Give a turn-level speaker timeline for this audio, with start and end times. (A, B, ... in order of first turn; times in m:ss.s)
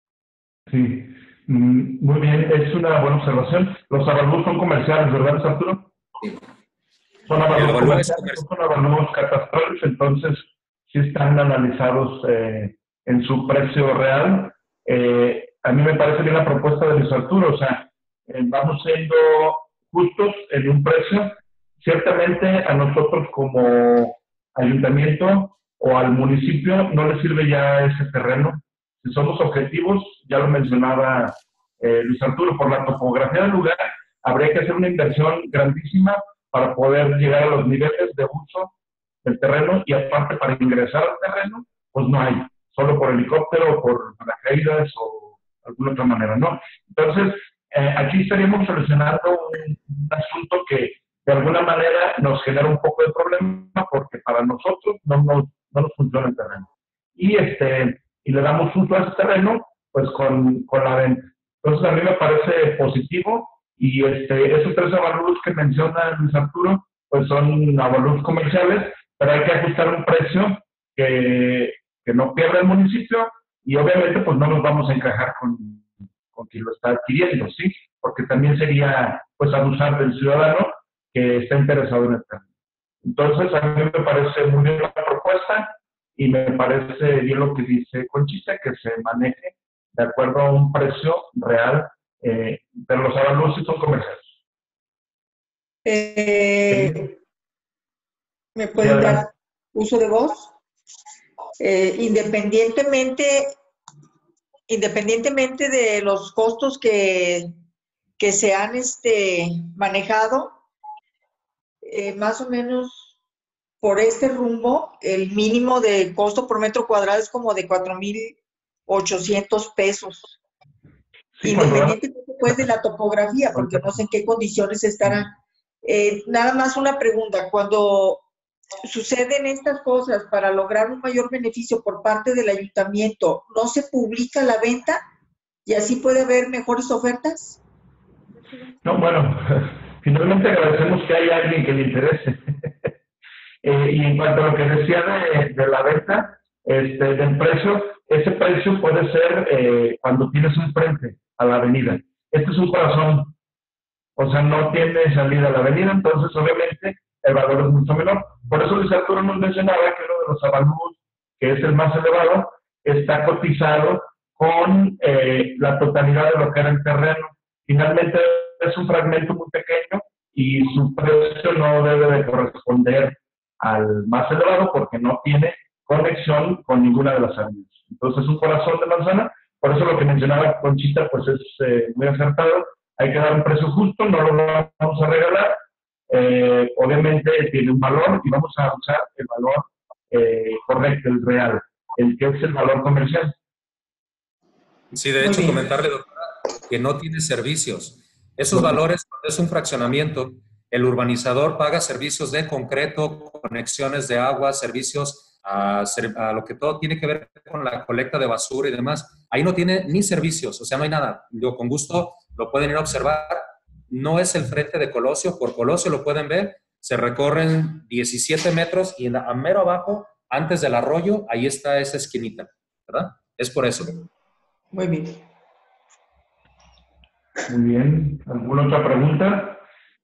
0:00.7-0:05.9 A
0:07.3-0:38.7 A
0:07.5-0:08.4 B
0:39.2-1:22.4 A
1:23.0-1:34.3 A
1:35.8-1:37.1 C
1:36.7-1:37.0 A
1:38.6-1:40.5 C
1:38.8-1:39.3 A
1:41.6-1:43.6 C
1:44.7-1:47.6 C
1:48.2-1:50.6 C
1:51.8-1:53.1 C
1:53.8-2:00.4 C
2:01.4-2:02.5 A
2:01.4-2:08.2 C
2:03.6-2:03.9 A
2:08.8-2:15.0 C
2:15.6-2:17.6 C
2:18.8-2:22.9 A
2:23.6-2:33.4 A
2:34.2-3:13.4 A
3:14.9-3:44.0 B
3:15.2-3:15.5 C
3:44.7-3:45.2 C
3:47.5-3:49.6 A